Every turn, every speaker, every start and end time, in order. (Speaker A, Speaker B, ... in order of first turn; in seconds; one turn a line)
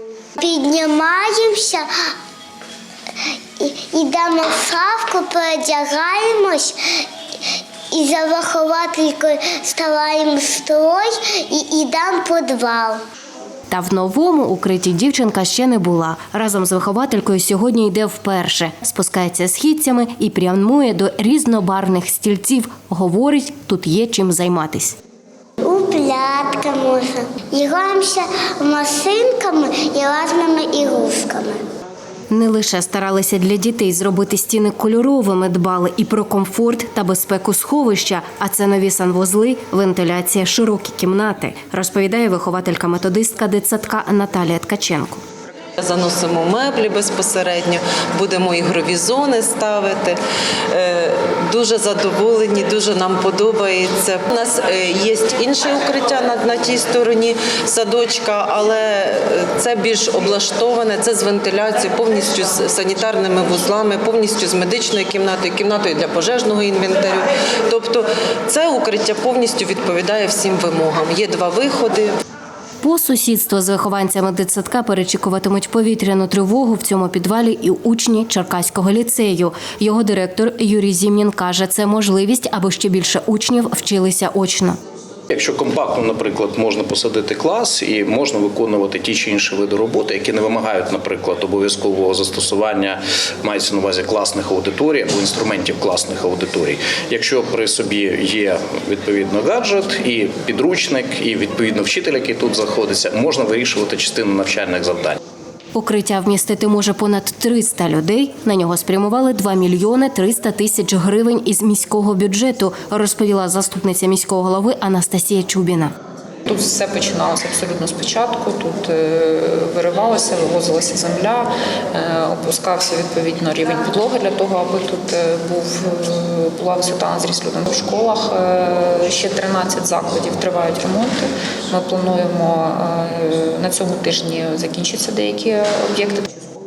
Speaker A: 0.4-1.9
Speaker A: 3.6-7.0
Speaker A: 7.9-13.0
Speaker B: 13.7-25.0
Speaker A: 25.6-31.6
Speaker B: 32.3-45.2
Speaker C: 45.8-50.2
Speaker C: 50.7-72.1
Speaker B: 72.8-84.8
Speaker D: 85.3-105.2
Speaker B: 105.7-115.9
Speaker E: 116.5-136.3